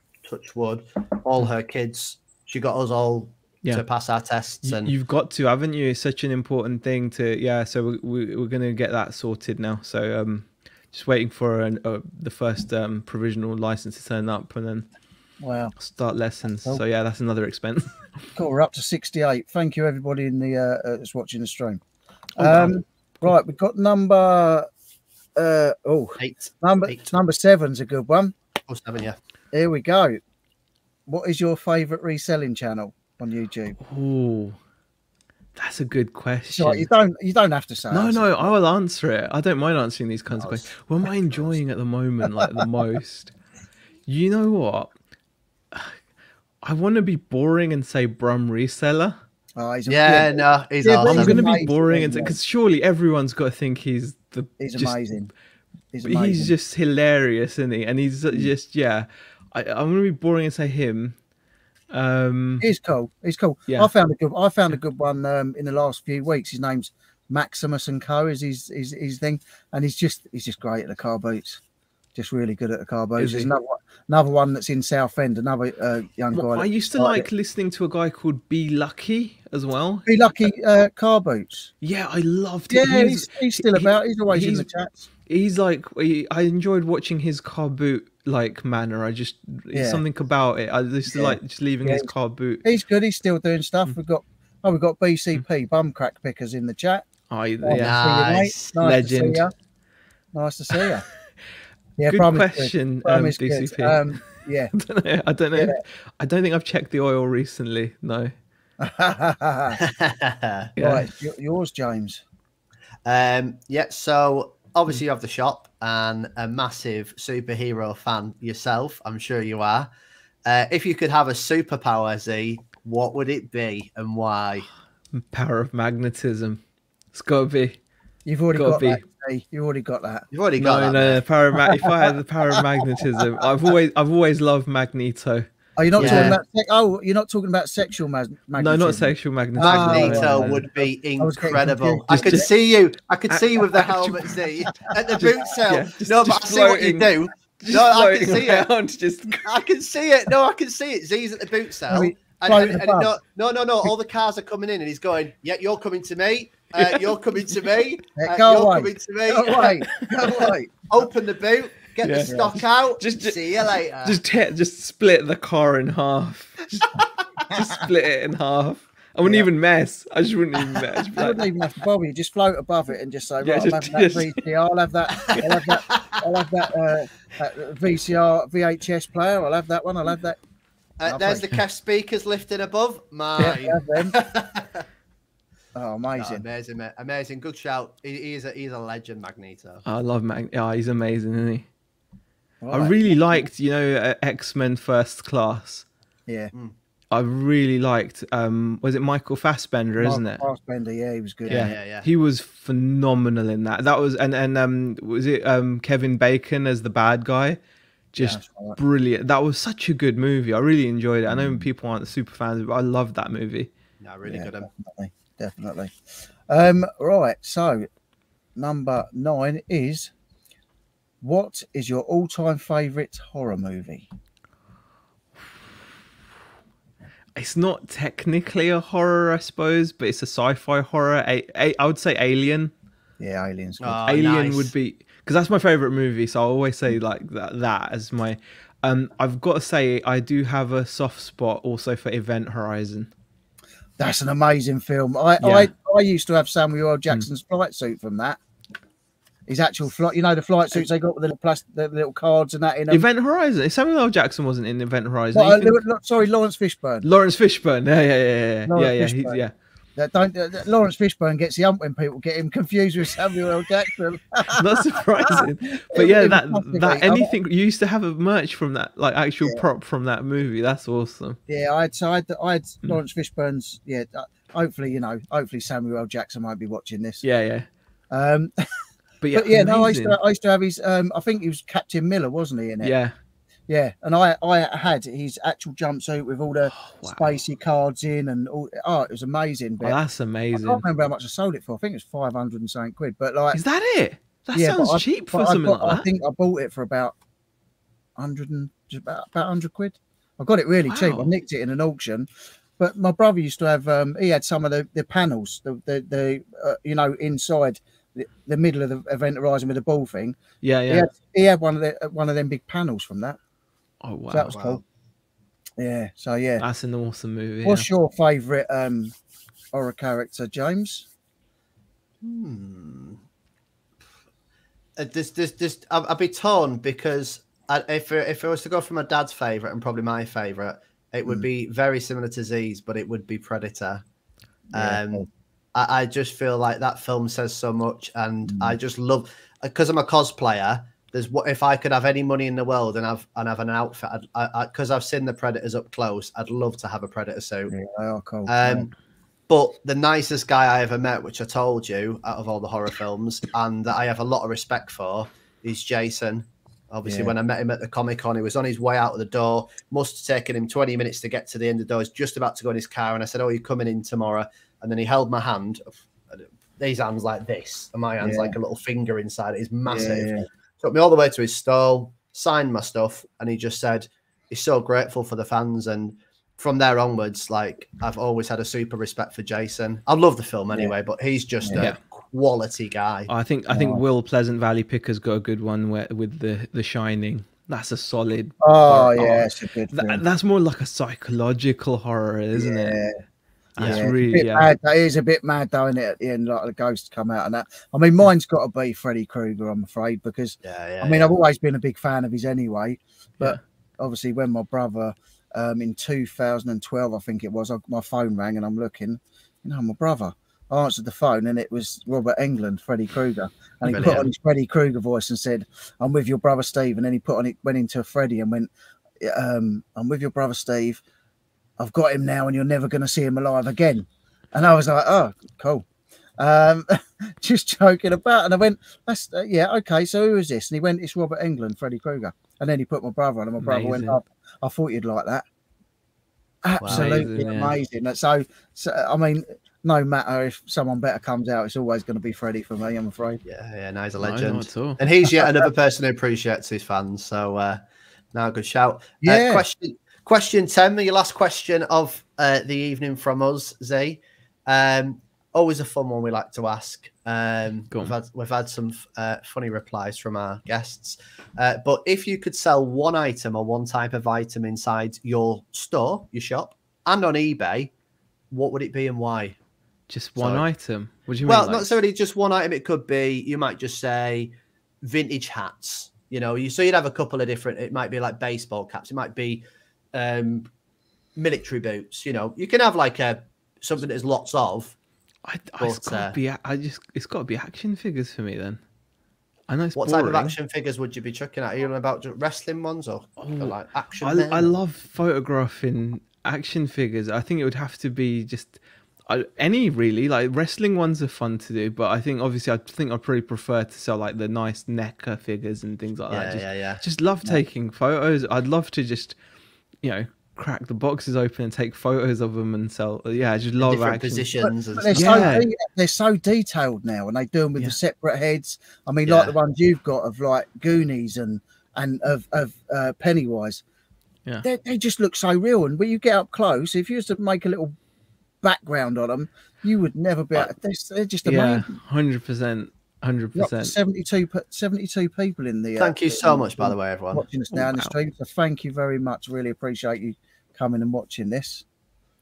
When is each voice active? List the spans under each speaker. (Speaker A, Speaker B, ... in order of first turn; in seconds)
Speaker A: 0.2-4.9, 26.2-27.1, 28.7-29.1, 40.4-40.7, 49.9-51.5, 97.7-98.9, 109.8-110.7, 113.0-119.9, 120.5-124.7, 130.3-131.2, 136.0-136.4, 139.7-148.7, 149.4-164.2, 175.3-176.2, 181.0-184.8, 186.2-189.8, 201.4-202.1, 214.0-214.7, 233.8-234.7, 314.5-314.8, 322.2-323.2, 325.0-334.0, 334.7-347.7, 348.5-348.9, 349.5-383.3, 400.6-401.3, 413.9-414.3, 436.8-437.3, 443.4-447.8, 448.3-467.9, 468.5-469.6, 470.4-470.6, 471.4-479.6, 480.1-480.7, 481.4-485.0, 485.8-486.4, 489.9-494.7, 506.3-507.0, 513.8-515.6, 519.2-519.5, 536.0-537.4
Speaker B: 4.6-14.9, 15.8-18.1, 22.4-22.7, 33.8-34.6, 35.5-36.9, 37.9-43.3, 44.1-44.9, 45.7-46.0, 46.6-49.2, 51.0-55.0, 56.0-61.2, 61.9-62.7, 73.2-73.5, 76.3-80.0, 81.8-84.7, 85.3-92.6, 97.3-98.1, 98.8-99.4, 102.1-104.2, 104.7-108.3, 110.8-111.1, 125.1-126.6, 127.1-127.8, 128.5-129.0, 130.6-136.3, 138.6-140.7, 142.1-142.5, 143.3-144.3, 145.2-149.6, 156.8-157.0, 162.0-163.4, 164.0-171.5, 173.4-174.4, 175.3-175.5, 189.8-191.7, 192.7-195.8, 197.1-200.4, 201.5-207.6, 208.1-213.7, 227.3-232.7, 234.1-243.1, 245.4-245.7, 252.9-255.8, 257.0-259.5, 264.5-271.4, 277.2-277.7, 279.2-280.2, 282.8-283.1, 286.7-287.3, 289.8-290.8, 293.5-296.1, 300.9-301.3, 310.6-311.1, 314.0-314.5, 316.6-317.9, 383.3-393.0, 393.8-394.7, 433.6-434.2, 436.9-437.8, 444.2-445.0, 470.1-471.9, 485.4-488.8, 489.7-490.6, 493.4-509.4, 510.0-514.5, 515.1-515.7, 531.4-533.9, 537.7-538.1
Speaker C: 15.4-15.7, 18.3-21.8, 22.4-24.7, 25.4-28.3, 29.5-30.2, 31.1-33.8, 36.5-38.5, 49.5-52.3, 54.6-55.3, 55.9-56.5, 62.6-71.6, 72.1-77.3, 80.0-81.7, 82.7-85.1, 89.7-90.0, 91.1-92.1, 92.6-97.1, 97.6-99.5, 100.3-101.0, 102.0-104.7, 108.8-109.8, 110.8-112.2, 128.2-130.3, 131.8-132.1, 135.8-142.5, 151.9-153.1, 158.2-160.8, 169.2-169.5, 171.0-180.4, 181.0-181.5, 183.4-184.2, 185.7-186.4, 192.6-193.5, 200.0-201.7, 208.2-208.8, 211.3-211.6, 214.2-217.9, 218.6-220.1, 221.2-224.1, 233.2-234.0, 244.0-248.4, 249.5-253.1, 255.3-257.0, 258.7-259.4, 259.9-267.3, 271.5-277.2, 278.1-278.5, 279.3-282.9, 283.7-290.0, 290.5-293.6, 294.5-297.1, 298.2-310.4, 310.9-313.4, 314.3-314.8, 315.8-316.6, 317.6-319.1, 319.7-321.1, 334.7-335.2, 338.5-338.8, 347.7-348.8, 357.0-357.3, 368.2-368.6, 369.9-370.4, 383.7-384.0, 388.6-390.2, 392.5-393.2, 393.8-421.0, 421.8-425.9, 426.4-435.4, 436.6-443.4, 445.2-445.7, 449.2-449.6, 514.6-523.8, 524.6-527.9, 528.6-531.9, 533.5-541.8